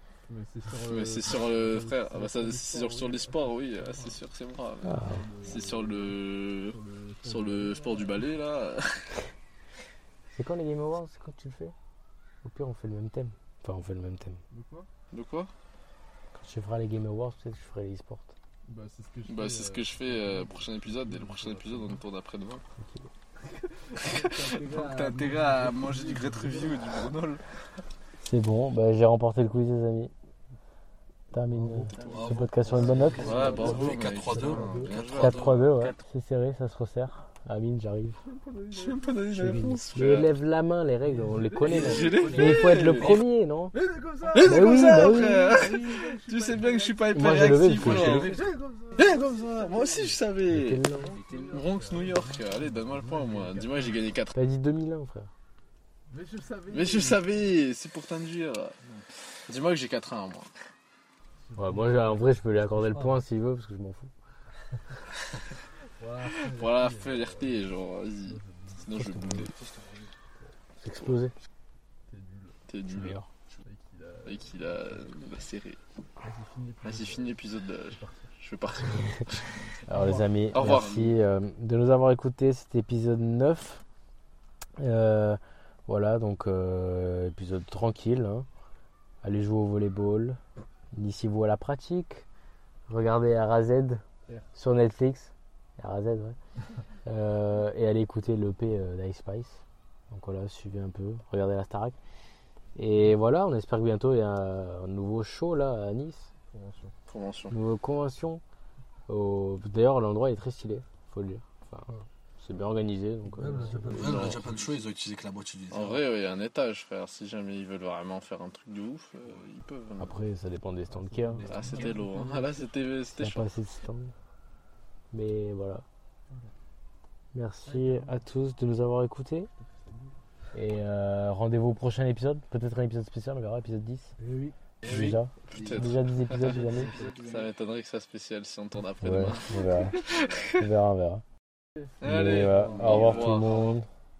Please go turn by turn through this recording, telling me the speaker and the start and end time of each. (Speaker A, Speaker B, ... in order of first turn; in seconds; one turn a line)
Speaker A: 0.3-4.2
Speaker B: 0.7-9.1
Speaker C: 4.8-5.3
Speaker A: 5.0-8.4
Speaker D: 5.0-5.7
Speaker C: 10.3-11.7
Speaker C: 12.4-14.4
Speaker A: 14.5-14.9
Speaker B: 15.1-15.5
Speaker C: 16.3-18.3
Speaker A: 18.6-22.0
Speaker B: 19.2-22.6
Speaker C: 22.8-23.1
Speaker A: 23.4-27.1
Speaker B: 24.0-27.4
Speaker C: 28.2-30.1
Speaker C: 31.3-33.3
Speaker D: 31.5-35.0
Speaker A: 31.9-32.3
Speaker B: 31.9-32.3
Speaker E: 32.1-35.6
Speaker B: 32.8-36.0
Speaker A: 33.0-34.0
Speaker C: 35.1-38.2
Speaker A: 38.2-39.8
Speaker B: 38.7-40.3
Speaker C: 39.3-43.7
Speaker A: 41.0-43.2
Speaker D: 41.6-43.1
Speaker B: 41.6-43.2
Speaker A: 43.7-50.2
Speaker B: 44.3-48.4
Speaker C: 44.4-45.5
Speaker C: 47.1-48.3
Speaker D: 47.8-48.4
Speaker B: 49.0-50.8
Speaker C: 50.5-51.2
Speaker A: 50.9-54.1
Speaker D: 51.0-52.3
Speaker B: 51.5-54.3
Speaker C: 54.3-55.3
Speaker A: 56.1-57.5
Speaker B: 56.7-58.8
Speaker A: 58.8-59.1
Speaker B: 59.5-60.5
Speaker A: 61.4-62.9
Speaker C: 61.6-64.1
Speaker A: 65.9-67.7
Speaker B: 66.3-69.7
Speaker D: 68.3-69.0
Speaker C: 68.9-69.5
Speaker C: 70.8-71.3
Speaker A: 72.1-72.6
Speaker B: 72.7-73.2
Speaker C: 72.8-73.3
Speaker A: 73.6-75.3
Speaker B: 74.2-75.8
Speaker A: 76.2-78.3
Speaker B: 76.8-79.7
Speaker C: 79.8-83.8
Speaker A: 79.9-80.3
Speaker B: 80.5-81.1
Speaker C: 84.8-88.5
Speaker C: 89.2-90.4
Speaker C: 90.9-92.2
Speaker C: 92.9-96.4
Speaker A: 94.2-94.5
Speaker C: 97.0-102.0
Speaker C: 102.7-106.3
Speaker A: 106.5-106.9
Speaker B: 107.1-107.5
Speaker C: 107.5-108.4
Speaker C: 109.1-114.3
Speaker D: 113.4-114.6
Speaker A: 113.4-113.9
Speaker E: 113.4-116.0
Speaker B: 114.0-114.4
Speaker B: 115.7-120.2
Speaker C: 120.0-121.5
Speaker A: 120.9-122.7
Speaker D: 121.4-122.3
Speaker B: 121.5-123.5
Speaker C: 123.1-124.1
Speaker C: 125.1-125.8
Speaker C: 127.3-129.5
Speaker A: 127.7-128.2
Speaker A: 129.5-130.2
Speaker C: 130.5-134.2
Speaker D: 134.2-134.6
Speaker C: 134.8-136.9
Speaker B: 134.8-140.6
Speaker D: 135.6-135.9
Speaker D: 136.4-137.5
Speaker A: 136.6-137.4
Speaker C: 139.0-140.0
Speaker C: 140.5-141.2
Speaker A: 141.8-143.6
Speaker B: 142.0-143.8
Speaker C: 142.0-143.9